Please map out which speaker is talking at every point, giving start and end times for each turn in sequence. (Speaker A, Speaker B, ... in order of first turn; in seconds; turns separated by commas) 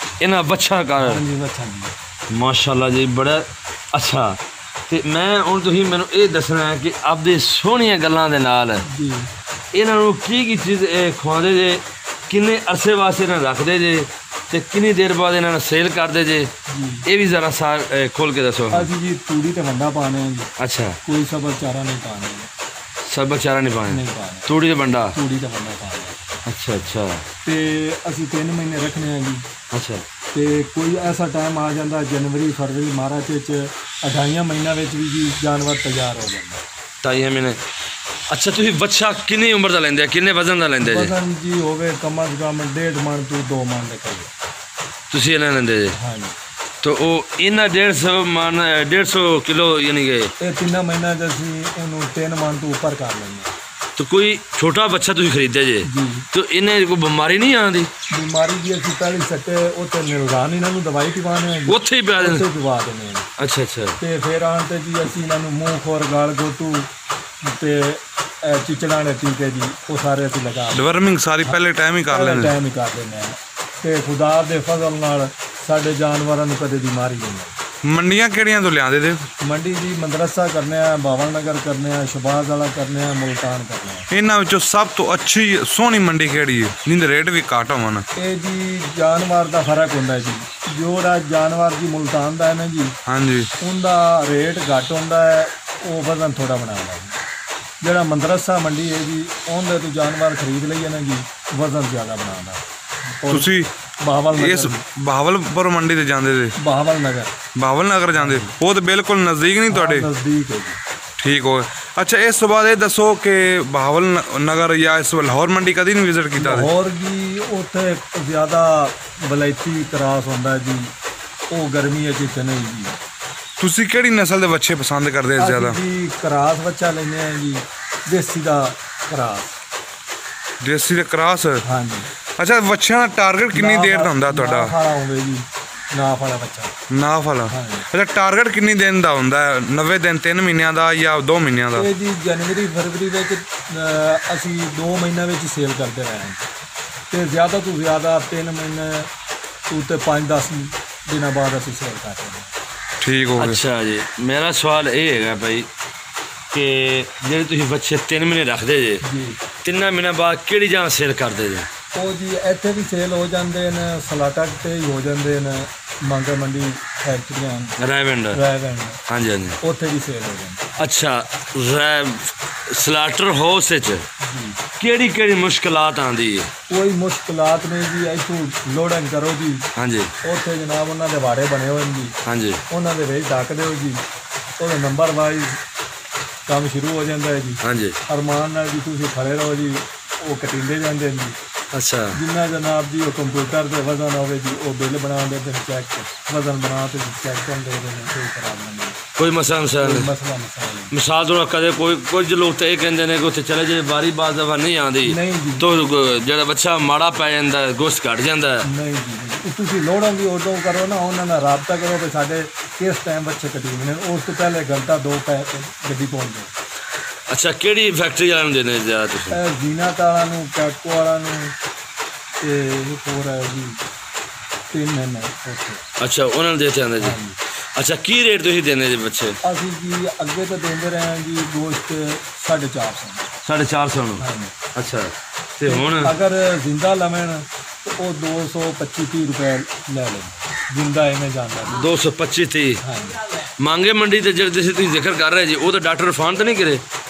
Speaker A: 0.2-1.2, Speaker B: 1.0-1.9, Speaker A: 2.3-8.8, Speaker B: 8.8-9.3, Speaker A: 9.7-16.5, Speaker B: 16.7-17.1, Speaker A: 17.1-18.9, Speaker B: 18.7-20.5, Speaker A: 20.6-21.0, Speaker B: 21.0-22.5, Speaker A: 23.1-25.1, Speaker B: 23.9-24.6, Speaker B: 25.1-26.3, Speaker A: 26.5-27.2, Speaker B: 27.4-29.5, Speaker A: 29.7-30.0, Speaker B: 30.3-36.6, Speaker A: 37.0-37.6, Speaker A: 38.3-41.1, Speaker B: 40.8-44.3, Speaker A: 45.1-46.0, Speaker B: 46.0-46.4, Speaker A: 46.8-50.3, Speaker B: 50.4-53.5, Speaker A: 54.0-57.9, Speaker B: 55.8-56.3, Speaker B: 58.1-63.3, Speaker A: 61.7-62.5, Speaker A: 63.4-64.0, Speaker B: 64.0-66.9, Speaker B: 67.4-77.6, Speaker C: 70.7-72.6, Speaker C: 77.8-79.3, Speaker B: 79.4-84.1, Speaker C: 84.1-88.1, Speaker B: 88.2-93.0, Speaker C: 93.1-93.5, Speaker B: 93.6-97.2, Speaker B: 97.8-104.8, Speaker C: 103.3-103.7, Speaker C: 104.3-106.5, Speaker B: 106.6-107.3, Speaker C: 107.5-110.1, Speaker B: 108.1-108.5, Speaker B: 109.7-110.8, Speaker C: 111.2-116.7, Speaker B: 116.4-120.9, Speaker B: 121.5-123.0, Speaker C: 123.6-125.8, Speaker B: 125.4-129.6, Speaker C: 130.6-131.7, Speaker B: 131.6-132.1, Speaker C: 132.4-134.7, Speaker B: 133.5-136.7, Speaker C: 136.9-141.9, Speaker B: 137.5-137.9, Speaker B: 141.8-146.5, Speaker B: 147.1-149.1, Speaker B: 149.7-152.5, Speaker C: 153.0-153.6, Speaker A: 153.4-155.7, Speaker A: 156.5-159.0, Speaker B: 159.0-159.4, Speaker A: 159.6-161.7, Speaker B: 161.9-167.8, Speaker A: 167.8-168.4, Speaker B: 168.3-169.0, Speaker A: 169.1-169.6, Speaker B: 169.6-170.6, Speaker A: 170.8-174.1, Speaker B: 174.2-174.6, Speaker A: 174.8-176.5, Speaker B: 176.7-179.7, Speaker A: 179.8-180.1, Speaker B: 180.2-182.2, Speaker A: 182.3-182.6, Speaker B: 182.7-184.0, Speaker B: 184.6-185.6, Speaker B: 186.5-191.4, Speaker A: 187.6-188.0, Speaker A: 191.7-192.2, Speaker B: 192.1-199.0, Speaker A: 199.2-200.1, Speaker B: 199.8-200.9, Speaker A: 200.9-208.7, Speaker B: 205.0-205.6, Speaker B: 208.6-216.5, Speaker A: 217.3-219.4, Speaker B: 219.3-221.6, Speaker B: 222.4-223.8, Speaker B: 224.7-225.8, Speaker A: 226.0-227.2, Speaker B: 227.0-227.4, Speaker A: 227.8-229.4, Speaker B: 229.4-233.2, Speaker A: 233.4-234.2, Speaker B: 234.2-234.6, Speaker A: 234.8-236.1, Speaker B: 235.7-241.9, Speaker A: 241.7-242.8, Speaker B: 242.8-243.2, Speaker A: 243.6-246.8